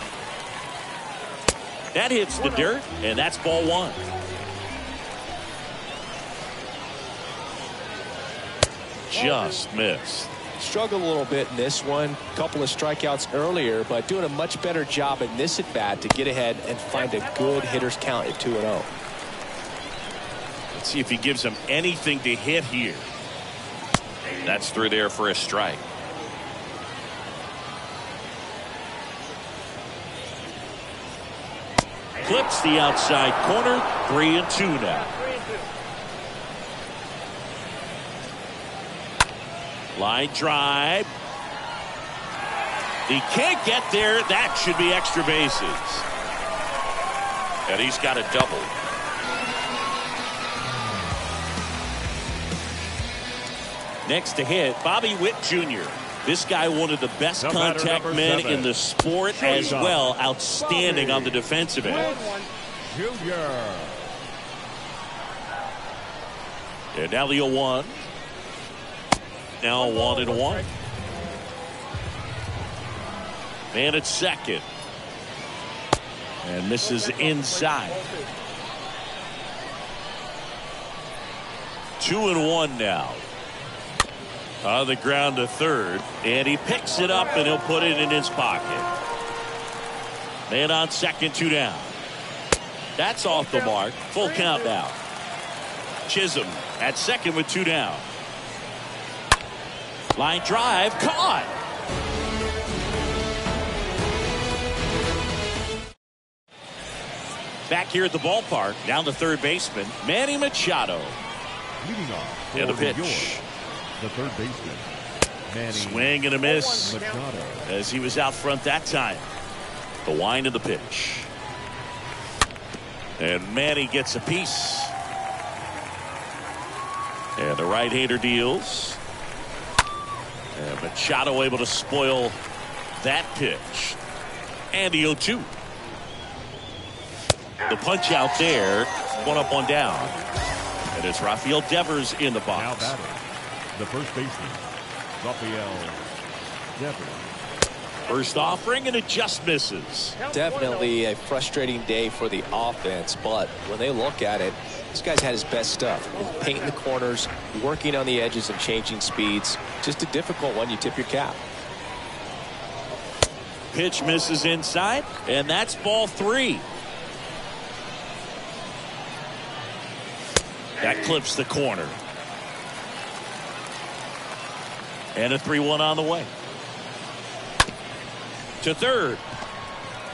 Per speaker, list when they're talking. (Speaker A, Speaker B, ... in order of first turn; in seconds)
Speaker A: 1.9-4.0, 9.1-10.3, 20.7-23.1, 24.4-25.8, 32.2-35.1, 39.9-41.1, 43.0-46.0, 47.7-48.7, 54.0-62.1, 66.9-68.1, 69.6-70.7, 73.7-74.6, 76.4-78.1, 82.0-83.2, 84.6-88.9, 90.5-92.0, 93.0-95.0, 96.0-98.1, 100.1-101.5, 107.7-111.2, 112.5-113.4, 115.7-117.0, 117.6-119.3, 120.0-121.3, 123.2-124.9, 127.3-129.0, 130.5-132.4, 133.0-134.0, 134.7-135.5, 137.7-140.2, 140.9-142.9, 148.1-150.2, 163.7-166.7, 170.8-172.0, 175.2-176.3, 178.6-179.2
Speaker B: 2.4-2.8, 9.1-9.6, 16.9-17.9, 34.9-35.7, 59.4-59.8, 61.8-62.5, 69.8-70.7, 76.8-78.3, 86.9-87.5, 93.3-94.8, 116.4-117.4, 150.2-150.9, 156.1-156.8
Speaker C: 10.6-18.9, 150.3-161.4
Speaker D: 57.4-58.7, 59.3-64.1, 111.8-113.4, 114.0-114.9, 115.5-117.7, 142.5-143.2, 143.7-144.6, 145.2-146.0, 146.8-147.3